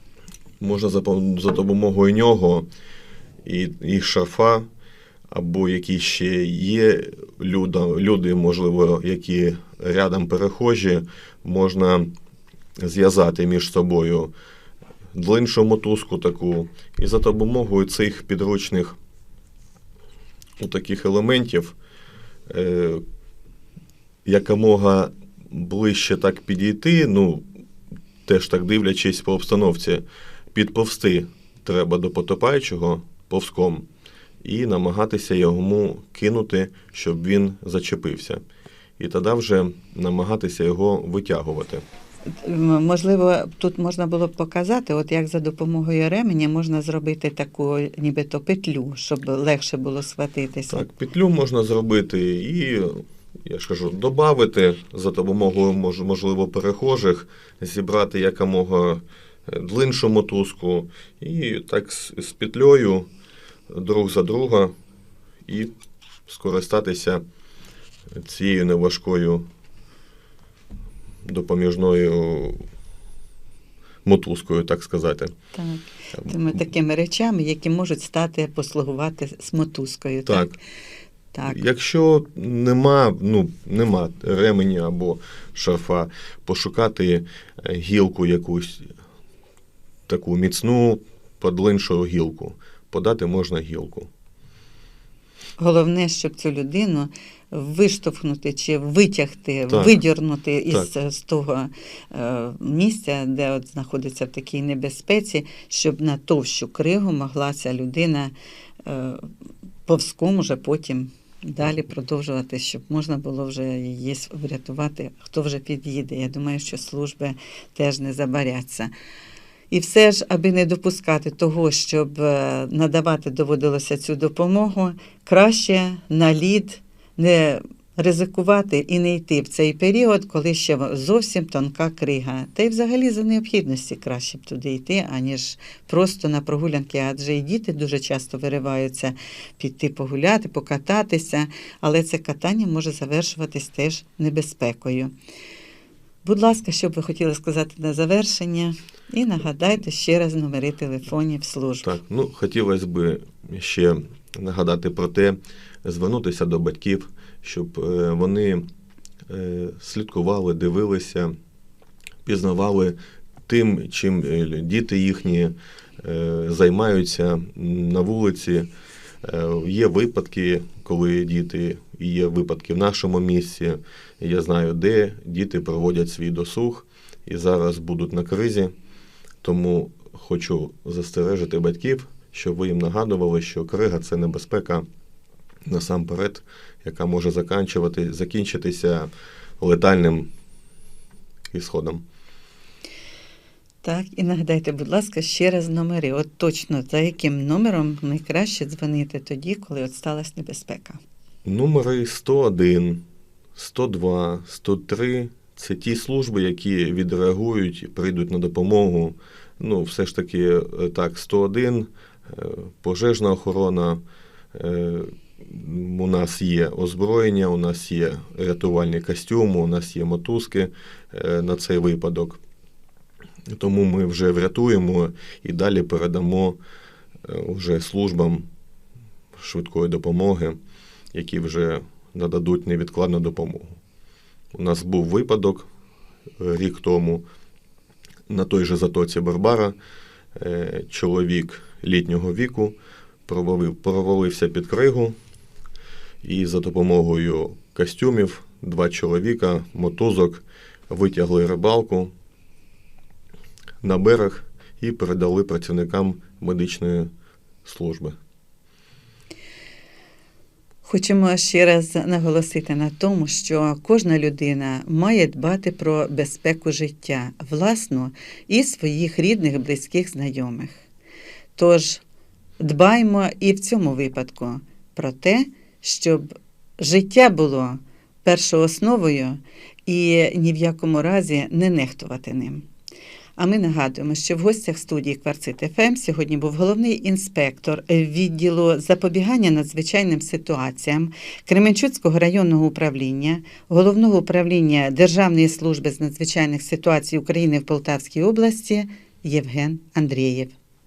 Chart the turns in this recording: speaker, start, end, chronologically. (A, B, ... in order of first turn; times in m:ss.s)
0:00.6-0:02.7 A
0:03.4-0:04.7 A
0:05.3-0:12.1 A
0:12.8-0:14.3 A
0:15.1-0:19.0 A
0:20.6-0:21.8 A
0:22.5-0:23.0 A
0:24.2-0:27.4 A
0:28.3-0:33.9 A
0:34.4-0:38.4 A
0:39.0-0:41.8 A
0:42.4-0:50.9 B
0:50.7-1:03.1 A
1:03.7-1:04.7 A
1:05.5-1:05.7 A
1:06.3-1:07.2 A
1:08.1-1:09.5 A
1:11.2-1:12.6 A
1:14.0-1:15.3 A
1:15.5-1:20.6 B
1:20.3-1:20.6 A
1:21.3-1:21.6 B
1:21.4-1:28.9 A
1:30.1-1:34.1 A
1:35.6-1:48.3 B
1:39.7-1:40.0 A
1:48.9-1:49.3 B
1:49.9-1:58.9 B
1:59.7-2:25.1 B
2:26.2-2:32.0 B
2:31.8-2:38.6 A
2:39.3-2:41.3 A
2:42.2-2:43.0 A
2:43.5-2:48.7 A
2:49.2-2:58.7 A
2:59.4-3:04.8 A
3:05.7-3:10.3 A
3:11.5-3:12.0 A
3:13.8-3:21.0 B
3:21.4-3:23.0 A
3:23.6-3:34.0 A
3:34.5-3:42.4 A
3:43.5-3:46.6 A
3:47.2-3:48.5 A
3:49.4-3:50.6 A
3:51.1-3:53.8 A
3:54.5-3:55.7 A
3:56.4-3:57.2 A
3:58.3-3:59.8 A
4:00.4-4:05.2 A
4:06.2-4:12.1 A
4:13.8-4:17.1 A
4:17.6-4:18.2 A
4:20.8-4:30.8 B
4:31.6-4:32.0 B
4:32.6-4:36.3 B
4:36.8-4:42.7 B
4:43.4-5:00.5 B